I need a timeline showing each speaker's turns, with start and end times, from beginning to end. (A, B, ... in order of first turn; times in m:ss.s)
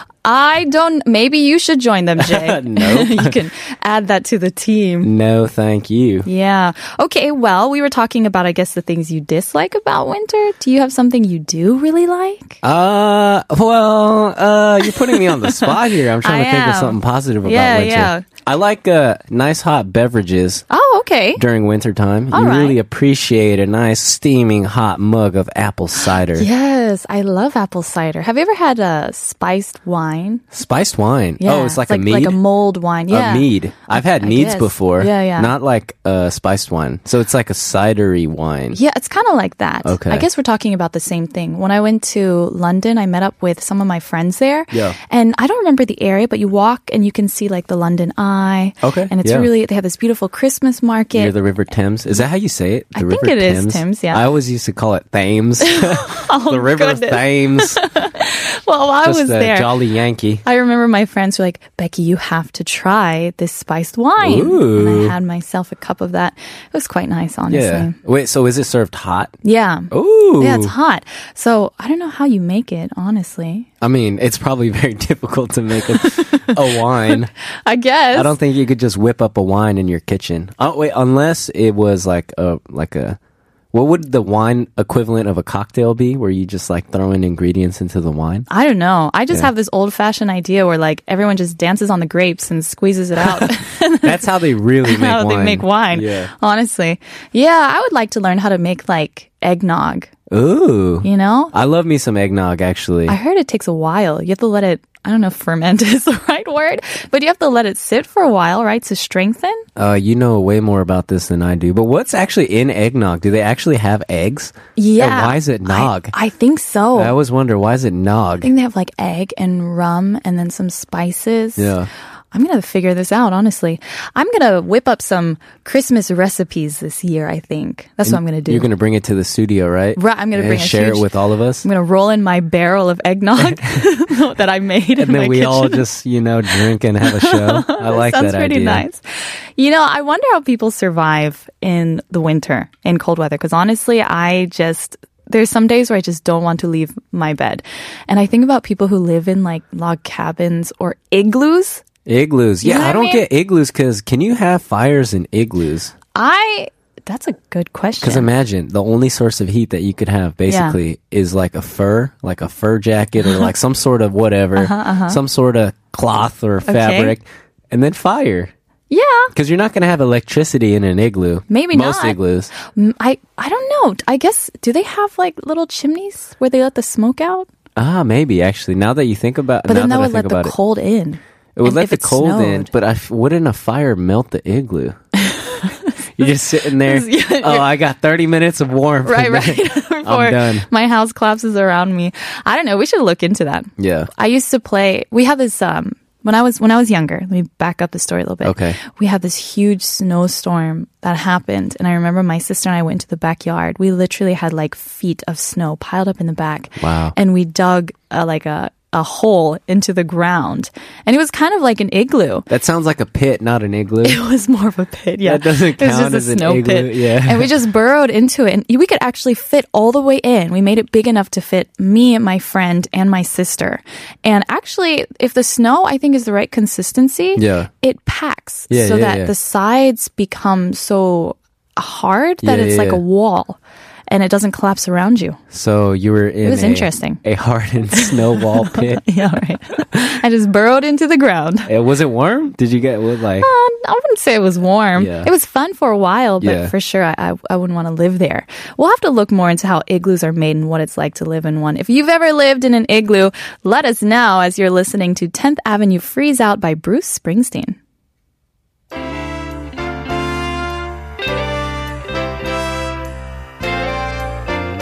0:00.2-0:05.1 A
0:02.2-0:03.4 B
0:05.0-0:06.3 B
0:06.2-0:12.6 A
0:12.6-0:20.7 B
0:15.0-0:18.3 A
0:20.7-0:21.4 A
0:21.4-0:26.5 B
0:22.3-0:22.8 A
0:26.3-0:30.4 A
0:30.5-0:32.4 B
0:31.4-0:35.5 A
0:33.1-0:38.8 B
0:38.7-0:51.3 A
0:39.8-0:40.3 B
0:48.8-0:49.5 B
0:51.1-0:57.8 B
0:53.0-0:54.2 A
0:55.6-0:59.7 A
0:59.0-1:00.4 B
1:00.4-1:08.0 A
1:04.2-1:05.2 B
1:07.5-1:09.4 B
1:09.4-1:13.7 A
1:09.9-1:10.7 B
1:13.8-1:17.3 B
1:15.9-1:18.4 A
1:18.1-1:23.2 B
1:23.7-1:28.5 B
1:28.5-1:34.3 A
1:34.0-1:36.3 B
1:34.8-1:40.1 A
1:40.3-1:43.2 B
1:41.0-1:41.5 A
1:43.1-1:49.7 A
1:49.8-1:56.1 B
1:54.8-1:57.2 A
1:57.0-1:58.5 B
1:58.4-2:01.8 A
2:01.6-2:01.9 B
2:02.3-2:08.7 A
2:08.0-2:11.6 B
2:10.0-2:11.1 A
2:11.6-2:15.8 A
2:13.4-2:13.8 B
2:15.0-2:18.8 B
2:17.0-2:19.0 A
2:19.6-2:31.8 A
2:32.1-2:35.9 B
2:32.6-2:33.2 A
2:36.2-2:38.3 A
2:38.0-2:48.5 B
2:40.5-2:40.8 A
2:44.6-2:45.2 A
2:46.7-2:47.2 A
2:48.9-2:49.3 A
2:49.3-2:52.5 B
2:51.5-2:57.5 A
2:57.8-3:00.6 B
2:59.7-3:02.7 A
3:01.6-3:05.0 B
3:05.2-3:07.7 A
3:06.2-3:10.7 B
3:09.0-3:32.5 A
3:13.8-3:14.1 B
3:18.4-3:18.8 B
3:26.8-3:27.2 B
3:32.5-3:34.2 B
3:34.0-3:55.4 A
3:35.2-3:37.5 B
3:47.4-3:47.7 B
3:48.7-3:49.3 B
3:52.4-3:53.0 B
3:55.5-3:59.0 B
3:56.4-3:57.2 A
3:57.9-4:01.7 A
4:01.7-4:03.5 B
4:03.4-4:17.8 A
4:05.0-4:05.3 B
4:06.4-4:06.7 B